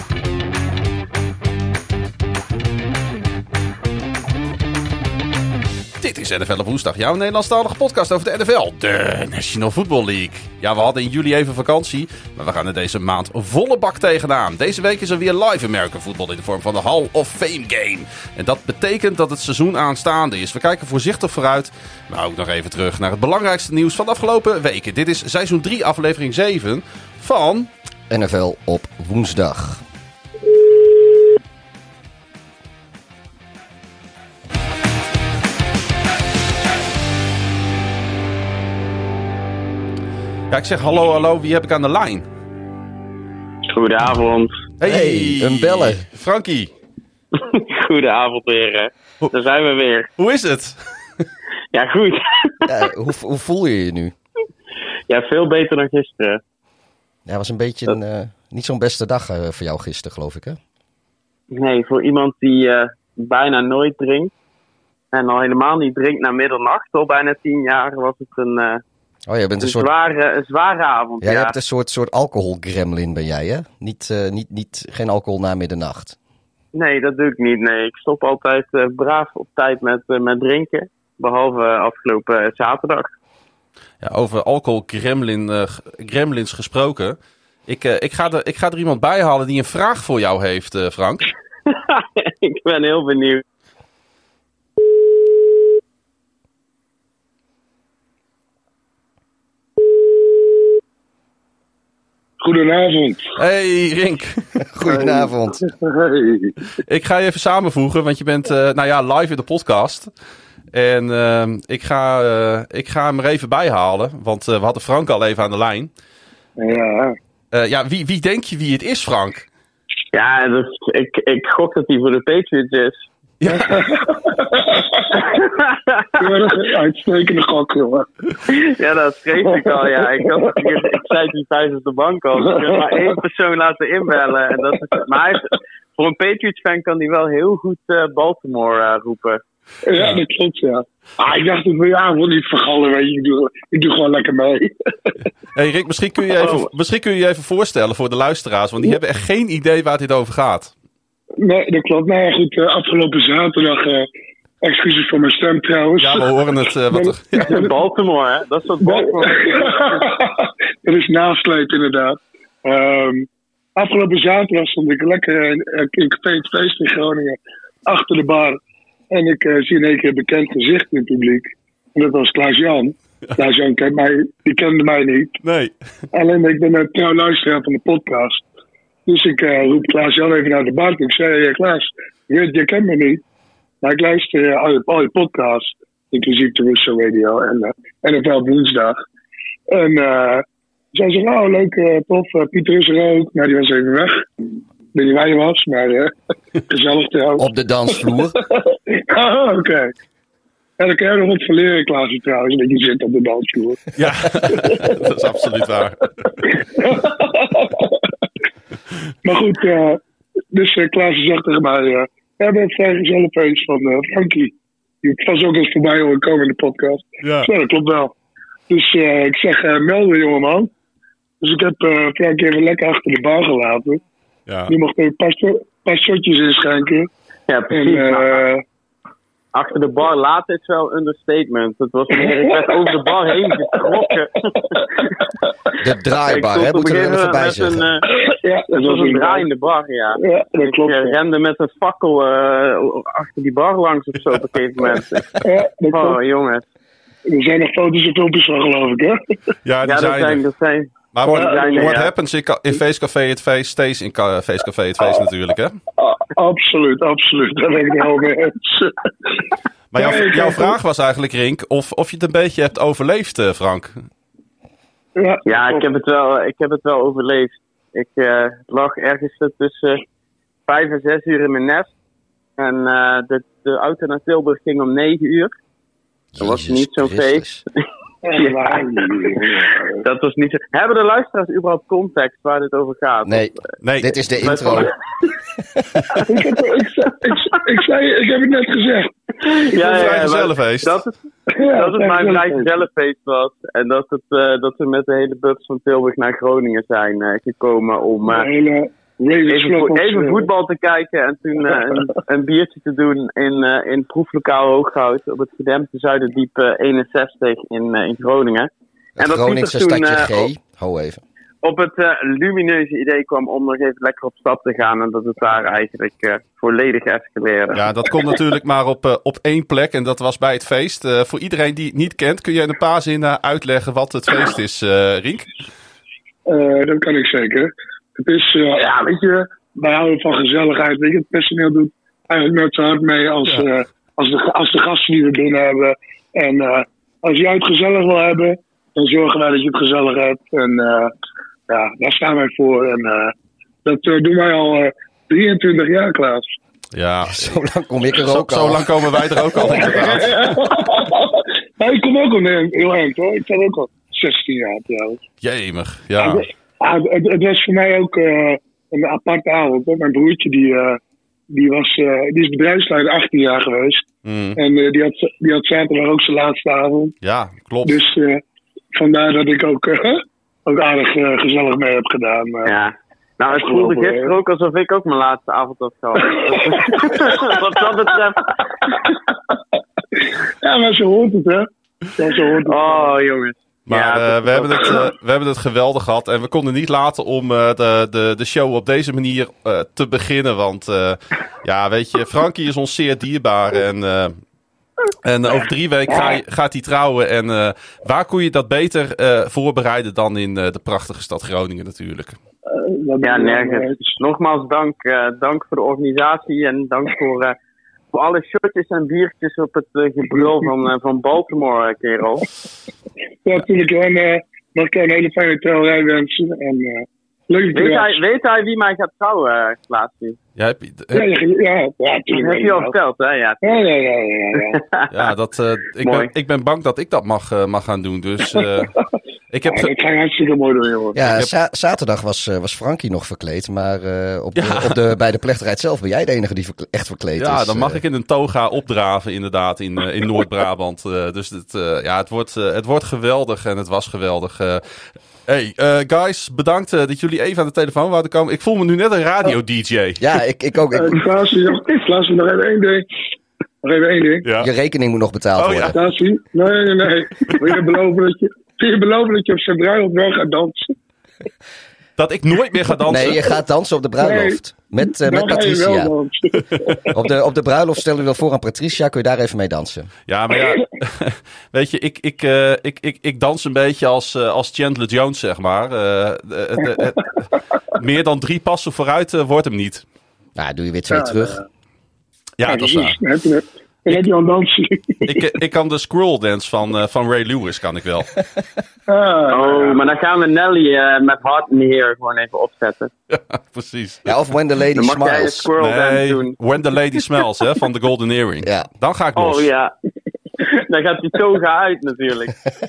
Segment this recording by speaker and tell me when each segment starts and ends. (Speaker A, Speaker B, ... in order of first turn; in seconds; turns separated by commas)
Speaker A: 6.0-27.7, Speaker B: 28.1-29.8, Speaker A: 40.5-42.3, Speaker C: 43.7-44.6, Speaker A: 44.8-46.7, Speaker B: 44.8-46.0, Speaker C: 47.4-50.1, Speaker A: 50.2-51.2, Speaker C: 51.7-52.7, Speaker B: 52.6-54.1, Speaker C: 55.1-56.4, Speaker B: 57.3-60.6, Speaker C: 61.5-64.3, Speaker C: 65.1-68.8, Speaker B: 69.3-69.9, Speaker C: 69.6-71.6, Speaker B: 71.2-76.2, Speaker C: 76.7-83.1, Speaker A: 84.0-91.3, Speaker C: 91.7-93.4, Speaker D: 102.4-103.3, Speaker A: 103.4-104.6, Speaker B: 104.7-105.6, Speaker D: 104.9-106.5, Speaker A: 106.8-110.1, Speaker A: 110.7-115.9, Speaker D: 116.6-117.2, Speaker A: 117.5-119.5, Speaker C: 120.1-123.0, Speaker A: 123.4-124.0, Speaker D: 123.5-125.2, Speaker C: 125.1-126.1, Speaker D: 126.2-128.1, Speaker C: 128.5-139.4, Speaker D: 132.6-133.0, Speaker D: 139.8-145.3, Speaker A: 139.9-140.2, Speaker A: 145.5-150.7, Speaker C: 146.4-146.7, Speaker D: 151.4-154.1, Speaker D: 154.6-157.8, Speaker A: 156.0-157.6, Speaker C: 157.4-160.0, Speaker D: 158.8-168.6, Speaker D: 169.1-175.4, Speaker A: 175.4-175.8, Speaker D: 176.1-178.4, Speaker D: 179.1-183.2, Speaker D: 183.8-189.0, Speaker D: 189.7-194.3, Speaker D: 194.9-197.5, Speaker B: 197.4-198.4, Speaker D: 198.9-199.9, Speaker D: 200.8-205.0, Speaker A: 204.0-206.3, Speaker D: 206.4-208.1, Speaker D: 209.2-210.0, Speaker D: 210.5-218.1, Speaker A: 217.2-217.5, Speaker D: 218.7-220.7, Speaker D: 221.4-224.0, Speaker A: 224.5-224.8, Speaker D: 224.7-227.1, Speaker C: 227.5-228.4, Speaker D: 227.7-228.6, Speaker C: 229.5-234.9, Speaker B: 235.8-237.8, Speaker C: 236.3-238.1, Speaker D: 238.1-239.5, Speaker C: 238.8-246.6, Speaker D: 240.2-241.2, Speaker D: 245.4-246.2, Speaker D: 247.3-249.2, Speaker A: 249.6-250.4, Speaker C: 249.8-252.1, Speaker A: 251.1-255.8, Speaker D: 251.3-251.9, Speaker D: 256.0-260.8, Speaker A: 259.9-264.0, Speaker D: 265.2-265.9, Speaker C: 265.4-270.0, Speaker C: 270.7-271.9, Speaker C: 272.6-275.5, Speaker B: 276.3-277.6, Speaker C: 276.4-277.4, Speaker D: 278.2-279.9, Speaker C: 278.4-278.8, Speaker C: 280.0-283.6, Speaker B: 283.2-284.9, Speaker A: 283.8-284.9, Speaker C: 284.4-284.9, Speaker D: 286.2-290.1, Speaker C: 289.4-291.1, Speaker A: 289.8-291.0, Speaker D: 291.5-292.7, Speaker C: 291.7-298.5, Speaker D: 298.3-300.5, Speaker C: 299.5-310.5, Speaker D: 301.7-302.1, Speaker B: 309.2-311.2, Speaker C: 311.6-318.4, Speaker A: 317.7-325.6, Speaker D: 326.5-341.1, Speaker D: 341.7-343.3, Speaker D: 343.9-346.4, Speaker A: 346.9-347.6, Speaker B: 347.2-350.3, Speaker A: 348.1-350.6, Speaker D: 349.6-355.2, Speaker A: 355.4-356.4, Speaker D: 356.2-361.0, Speaker D: 361.5-364.1, Speaker A: 364.2-364.6, Speaker D: 364.6-367.2, Speaker A: 367.2-368.0, Speaker D: 367.9-368.4, Speaker D: 368.9-372.7, Speaker C: 372.6-378.9, Speaker D: 373.5-374.3, Speaker D: 376.4-377.6, Speaker D: 380.6-383.1, Speaker C: 382.6-385.0, Speaker A: 383.9-394.4, Speaker A: 395.2-402.4, Speaker D: 396.1-396.4, Speaker D: 402.7-404.1, Speaker C: 403.2-407.6, Speaker C: 408.1-412.5, Speaker D: 413.4-418.2, Speaker C: 417.7-420.4, Speaker A: 420.6-421.3, Speaker D: 421.1-422.9, Speaker C: 422.3-423.6, Speaker D: 423.6-424.8, Speaker C: 424.6-425.1, Speaker A: 425.1-428.9, Speaker C: 426.0-426.3, Speaker A: 429.5-429.9, Speaker D: 429.7-431.3, Speaker B: 431.1-438.0, Speaker A: 431.2-431.5, Speaker A: 434.6-435.0, Speaker A: 437.4-450.2, Speaker B: 450.2-451.3, Speaker D: 450.9-453.1, Speaker D: 453.8-454.5, Speaker A: 454.4-454.7, Speaker B: 454.6-456.0, Speaker A: 455.6-456.0, Speaker D: 455.9-460.9, Speaker A: 462.2-463.4, Speaker B: 463.1-466.1, Speaker D: 464.2-467.2, Speaker A: 466.6-467.1, Speaker B: 467.1-470.1, Speaker A: 470.3-480.1, Speaker B: 480.6-481.6, Speaker D: 481.1-481.6, Speaker A: 482.6-483.2, Speaker D: 482.6-485.6, Speaker A: 485.2-488.4, Speaker D: 489.1-490.0, Speaker C: 489.5-493.1, Speaker A: 493.3-494.3, Speaker B: 494.3-495.7, Speaker C: 495.0-496.6, Speaker A: 495.8-499.7, Speaker B: 498.6-498.9, Speaker C: 499.4-499.9, Speaker C: 500.6-502.5